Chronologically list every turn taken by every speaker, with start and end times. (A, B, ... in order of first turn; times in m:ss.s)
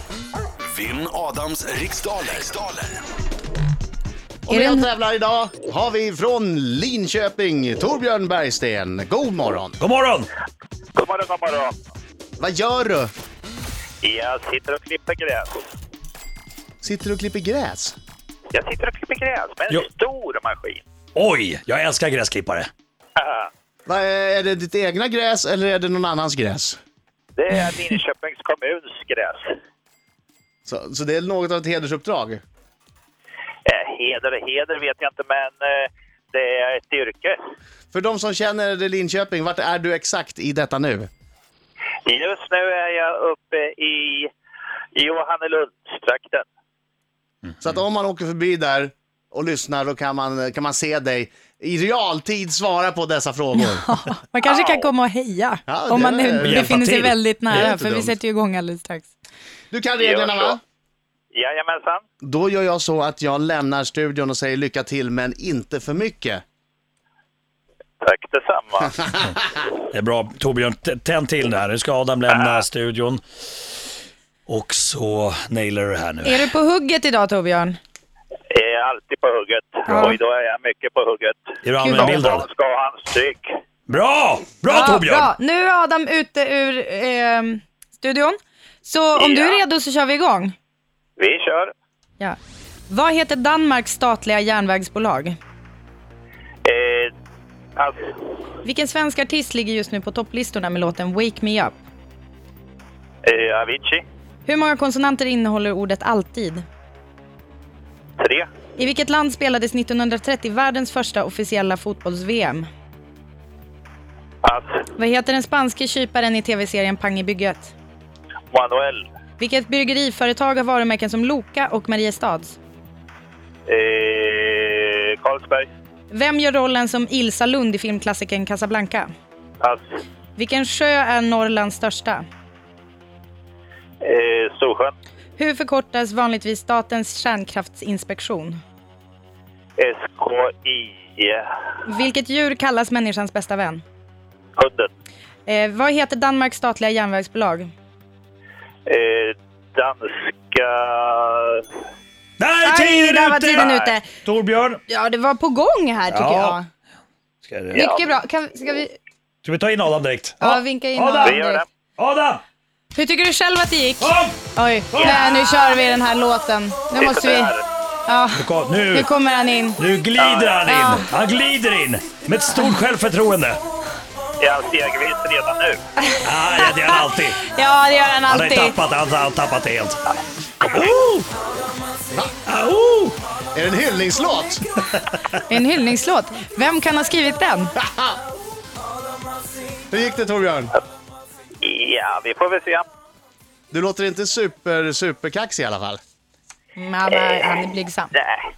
0:00.6-0:03.0 A
0:04.4-0:09.8 B
0:04.5-0:04.9 C
0:09.8-0:10.3 D
0:10.9-0:11.7 E
0:12.4-0:13.1 B
0:14.0-0:15.5 E
0:16.8-0:18.0 B
0:18.5-0:20.8 E
0:21.1-0:22.7 D
0:23.2-0:23.5 E
0:23.8-0:26.8 B
0:27.4-0:29.6 E
0:30.6-0:32.4 B
0:33.6-0:37.4 E
0:37.9-0:41.1 B
0:42.0-0:44.3 E
0:44.9-0:46.4 E
0:47.6-0:53.9 B
0:53.6-0:59.1 C
0:54.4-0:54.8 E
0:55.7-0:56.8 B
0:56.4-0:57.7 D
0:57.5-0:58.2 B
0:59.7-1:00.6 B
1:00.0-1:00.6 E
1:01.3-1:02.0 E
1:02.2-1:06.4 B
1:08.0-1:09.0 E
1:09.9-1:13.2 D
1:12.3-1:12.6 E
1:14.5-1:16.4 D
1:16.2-1:17.8 C
1:18.5-1:23.5 E
1:19.9-1:20.2 C
1:21.6-1:22.5 D
1:21.8-1:22.2 C
1:23.9-1:25.3 D
1:24.6-1:30.5 C
1:29.2-1:29.6 E
1:31.2-1:31.7 E
1:32.9-1:35.4 C
1:36.6-1:37.1 E
1:37.8-1:38.1 E
1:38.6-1:41.8 C
1:43.2-1:44.0 E
1:44.4-1:46.6 C
1:48.2-1:48.5 E
1:48.8-1:52.7 C
1:54.4-1:54.8 E
1:55.0-1:57.7 C
1:58.5-1:59.0 E
1:59.4-2:02.6 C
2:03.7-2:05.7 E
2:06.1-2:09.1 C
2:10.4-2:12.2 C
2:14.0-2:14.9 E
2:15.4-2:18.6 C
2:19.8-2:21.5 E
2:21.8-2:23.8 C
2:24.6-2:24.9 E
2:25.4-2:27.7 C
2:28.9-2:31.6 E
2:32.4-2:34.8 D
2:32.6-2:34.1 C
2:33.5-2:33.9 E
2:34.9-2:36.7 C
2:36.1-2:36.6 D
2:37.4-2:37.9 D
2:37.7-2:39.0 C
2:37.7-2:38.1 E
2:39.4-2:41.4 D
2:40.4-2:41.6 C
2:41.2-2:41.6 E
2:42.0-2:42.4 D
2:42.9-2:49.8 C
2:44.0-2:44.4 D
2:44.9-2:45.7 E
2:46.9-2:47.6 E
2:48.3-2:49.1 D
2:49.8-2:53.6 D
2:50.2-2:50.6 E
2:50.6-2:51.1 C
2:54.4-2:55.8 E
2:56.0-2:58.8 C
2:56.2-2:57.4 D
2:58.3-3:00.0 D
3:00.7-3:01.2 D
3:02.5-3:03.2 D
3:03.5-3:04.7 B
3:05.5-3:07.7 C
3:07.8-3:08.2 B
3:09.9-3:10.7 B
3:11.6-3:12.8 E
3:13.7-3:16.0 B
3:16.8-3:18.1 C
3:17.1-3:17.5 E
3:18.1-3:18.5 E